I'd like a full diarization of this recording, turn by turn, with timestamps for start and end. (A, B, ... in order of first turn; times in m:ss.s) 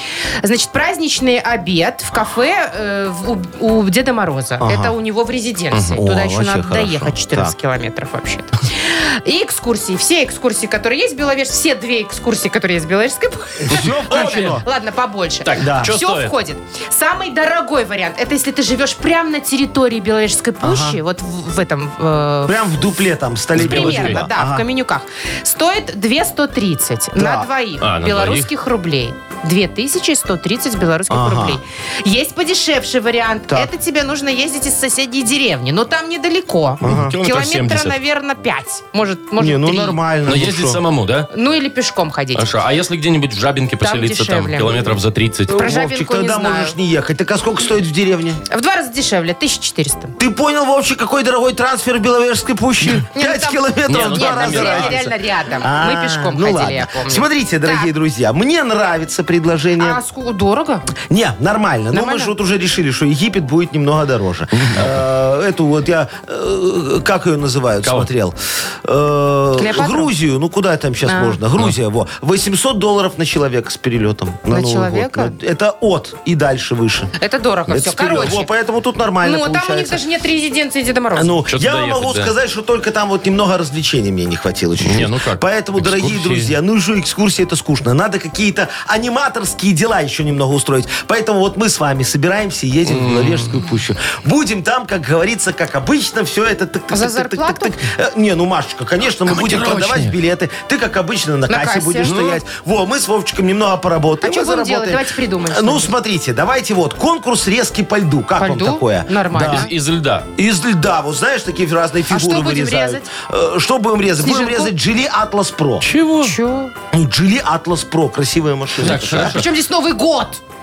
0:00.4-0:22.6 A
0:04.6-0:04.9 B
0:05.9-0:07.5 B
0:13.6-0:14.7 B
0:13.7-0:14.6 C
0:15.4-0:16.4 C
0:15.6-0:15.9 B
0:20.6-0:21.0 B
0:22.4-0:24.6 B
0:23.5-0:24.3 C
0:23.6-0:40.0 A
0:27.2-0:27.5 B
0:27.8-0:28.5 C
0:31.1-0:31.6 B
0:36.8-0:37.2 B
0:36.8-0:38.0 C
0:39.4-0:40.8 B
0:40.3-0:41.3 C
0:41.3-0:42.5 A
0:42.3-0:45.6 C
0:43.8-0:44.9 A
0:45.5-0:48.4 B
0:45.5-0:46.7 A
0:48.5-0:50.1 A
0:50.2-1:00.0 B
0:53.1-0:57.9 A
0:53.9-0:55.0 C
0:59.8-1:00.8 A
1:01.1-1:17.1 B
1:01.9-1:02.3 A
1:04.5-1:05.0 C
1:07.8-1:08.1 C
1:09.6-1:10.1 A
1:11.0-1:11.4 A
1:14.5-1:15.3 A
1:17.2-1:18.5 A
1:17.7-1:20.0 B
1:19.2-1:21.4 A
1:21.1-1:49.7 B
1:21.5-1:22.3 C
1:24.8-1:26.5 C
1:32.8-1:33.7 C
1:36.9-1:37.8 A
1:39.2-1:40.2 C
1:41.5-1:42.1 A
1:42.0-1:42.4 C
1:44.2-1:45.9 A
1:48.4-1:49.7 A
1:49.4-1:50.3 C
1:50.4-1:55.9 B
1:52.1-1:53.1 A
1:54.2-1:54.7 A
1:55.8-1:56.4 C
1:56.2-1:56.7 A
1:56.9-1:59.4 B
1:58.8-1:59.5 C
1:59.1-2:00.4 A